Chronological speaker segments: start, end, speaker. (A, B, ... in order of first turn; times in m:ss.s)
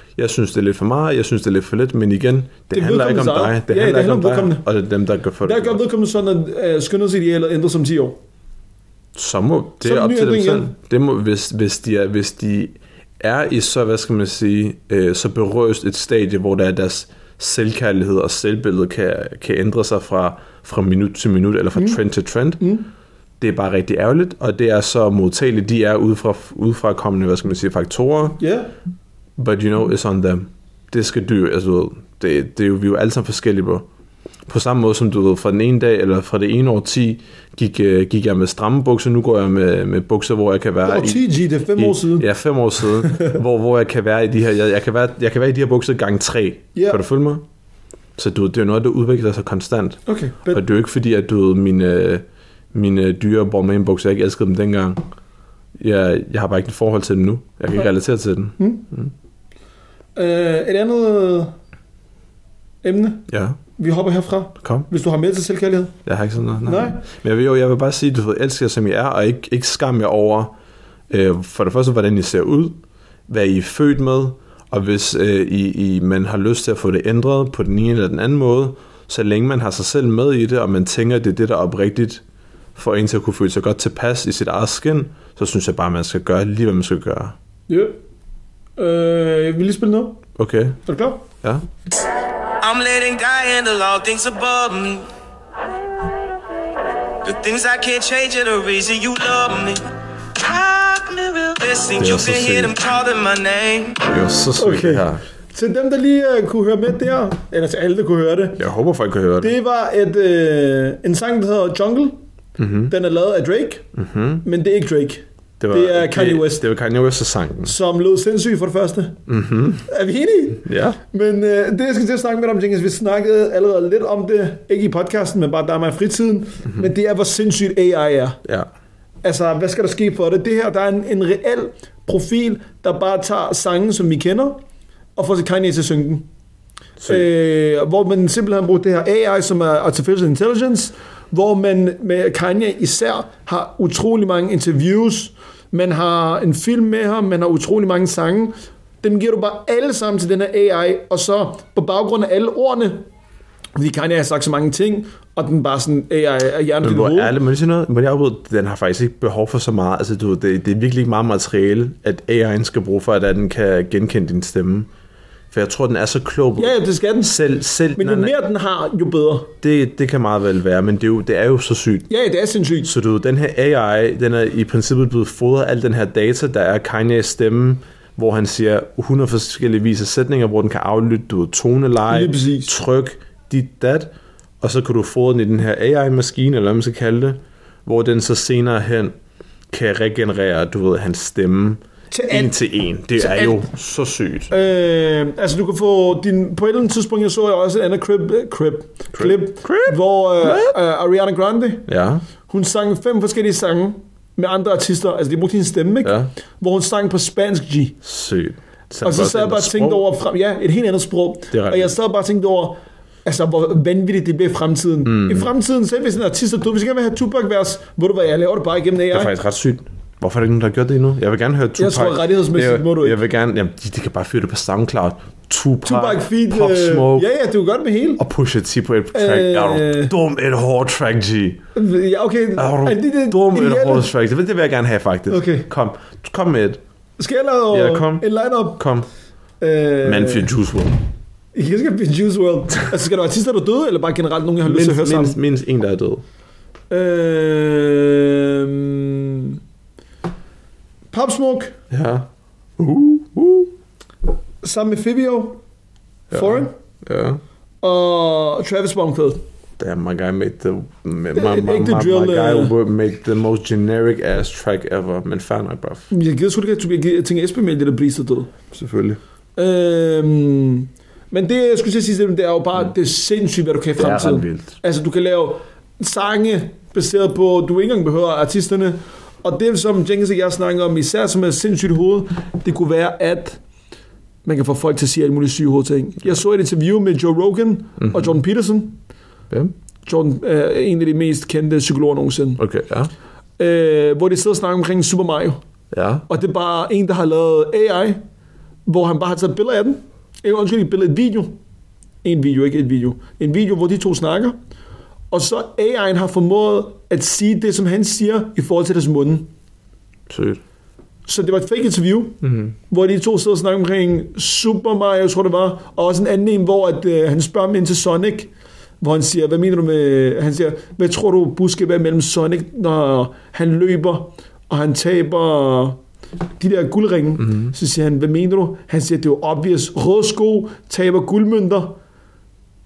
0:00.2-0:05.8 A
0:02.7-0:04.6 B
0:05.4-0:08.2 B
0:09.1-0:22.6 A
0:09.8-0:10.7 B
0:22.6-0:22.9 B
0:23.4-0:28.4 A
0:28.4-0:28.7 B
0:29.4-0:33.8 A
0:34.5-0:41.2 A
0:40.8-0:42.3 B
0:41.8-0:47.4 A
0:43.0-0:43.4 B
0:46.7-0:47.0 B
0:48.2-0:55.0 A
0:50.1-0:50.6 B
0:55.8-0:59.1 A
0:58.6-0:58.8 B
1:00.2-1:01.5 B
1:02.8-1:05.9 B
1:03.3-1:03.6 A
1:04.6-1:04.8 A
1:06.0-1:10.5 A
1:06.6-1:07.0 B
1:11.1-1:22.2 A
1:22.8-1:27.3 A
1:27.7-1:27.9 B
1:28.8-1:30.2 B
1:30.4-1:30.8 A
1:30.8-1:31.2 B
1:32.6-1:35.1 C
1:37.2-1:39.8 C
1:40.3-1:44.1 C
1:42.0-1:42.7 A
1:44.0-1:45.2 A
1:44.6-1:48.6 B
1:48.6-1:49.5 A
1:49.4-1:52.2 B
1:52.6-1:52.9 A
1:52.9-1:53.8 B
1:53.9-1:54.4 A
1:54.4-1:56.6 B
1:55.6-1:57.7 A
1:57.6-1:59.2 B
1:59.3-1:59.8 A
1:59.8-2:08.4 B
2:00.6-2:01.0 A
2:09.2-2:14.6 B
2:15.2-2:16.2 B
2:17.0-2:17.2 A
2:17.0-2:33.0 B
2:33.8-2:37.3 B
2:36.8-2:44.9 A
2:45.5-2:48.3 A
2:46.6-2:47.4 B
2:48.0-2:49.5 B
2:49.6-2:52.1 A
2:52.1-2:52.9 B
2:52.8-3:09.1 A
3:02.1-3:02.7 B
3:09.7-3:14.5 A
3:12.1-3:12.5 B
3:13.2-3:13.6 B
3:14.5-3:21.9 B
3:19.1-3:20.8 A
3:21.9-3:22.2 A
3:22.5-3:28.0 B
3:26.0-3:26.3 A
3:28.0-3:30.0 A
3:29.0-3:39.3 B
3:31.5-3:31.9 A
3:35.0-3:35.5 A
3:39.1-3:47.3 A
3:41.8-3:43.2 B
3:45.8-3:48.2 B
3:48.2-3:51.6 A
3:49.1-3:50.1 B
3:51.7-3:54.1 B
3:52.6-3:56.8 A
3:55.3-3:55.7 B
3:57.2-3:58.8 B
3:57.7-3:58.2 A
3:58.8-3:59.1 A
3:59.6-4:00.5 B
4:00.0-4:01.0 A
4:01.5-4:05.4 B
4:04.6-4:06.2 A
4:06.9-4:09.6 B
4:11.1-4:11.7 B
4:11.9-4:13.7 A
4:14.6-4:15.6 B
4:16.3-4:17.4 A
4:16.3-4:16.7 B
4:17.8-4:19.4 B
4:19.8-4:26.1 A
4:21.3-4:22.7 B
4:26.1-4:28.5 B
4:28.7-4:29.2 A
4:29.6-4:43.6 B
4:34.0-4:34.7 A
4:44.4-4:49.0 B
4:48.0-4:48.4 A
4:50.0-4:52.6 B
4:52.6-4:53.1 A
4:53.6-4:55.6 B
4:55.9-4:56.3 A
4:56.3-4:58.2 B
4:58.8-5:01.6 B
5:02.2-5:04.6 B
5:05.3-5:09.5 B
5:10.3-5:10.6 A
5:11.3-5:18.5 B
5:12.4-5:12.7 A
5:19.0-5:26.0 B
5:26.6-5:32.0 B